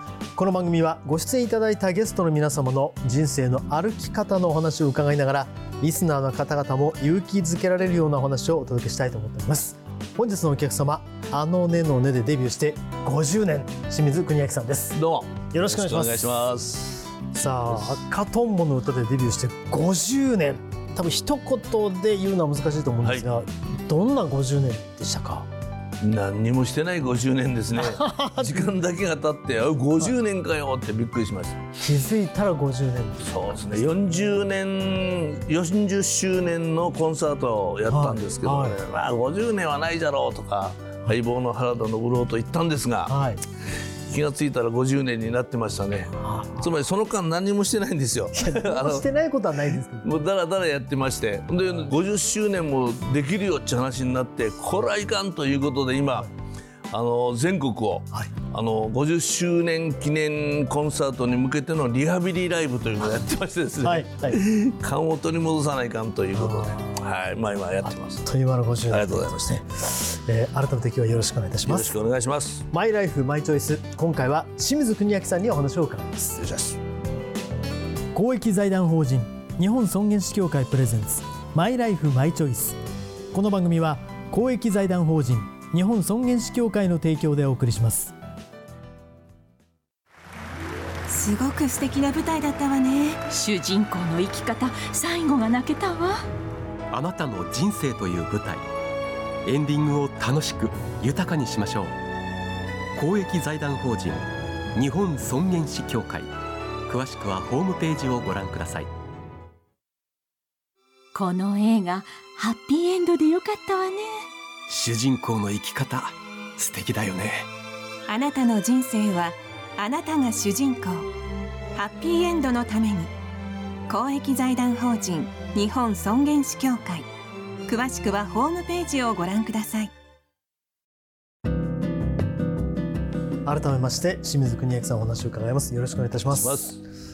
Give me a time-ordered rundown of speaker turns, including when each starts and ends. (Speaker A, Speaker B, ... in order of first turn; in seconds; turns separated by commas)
Speaker A: 0.3-15.0, Speaker B: 14.9-17.1, Speaker A: 15.5-16.5, Speaker A: 17.3-25.5, Speaker B: 23.0-23.3, Speaker B: 26.0-31.8, Speaker A: 27.7-28.8, Speaker A: 31.8-34.4, Speaker B: 33.2-43.1, Speaker A: 37.9-38.8, Speaker A: 43.1-43.4, Speaker B: 44.1-49.1, Speaker A: 46.1-46.7, Speaker A: 48.3-50.2, Speaker B: 50.0-56.3, Speaker A: 51.5-51.9, Speaker B: 56.9-68.3, Speaker A: 63.8-64.4, Speaker A: 66.3-67.0, Speaker A: 67.9-71.9, Speaker B: 68.9-69.5, Speaker B: 71.6-72.7, Speaker A: 72.7-76.4, Speaker B: 76.4-76.8, Speaker A: 78.1-82.8, Speaker A: 83.3-88.1, Speaker C: 91.1-93.2, Speaker D: 93.3-96.2, Speaker E: 96.9-98.7, Speaker E: 99.4-101.9, Speaker E: 103.0-106.3, Speaker E: 106.9-108.9, Speaker D: 111.1-114.3, Speaker E: 114.7-117.5, Speaker C: 118.1-121.1, Speaker C: 121.8-123.1, Speaker C: 123.9-127.1, Speaker C: 127.7-129.9, Speaker A: 133.4-136.7, Speaker B: 136.4-136.8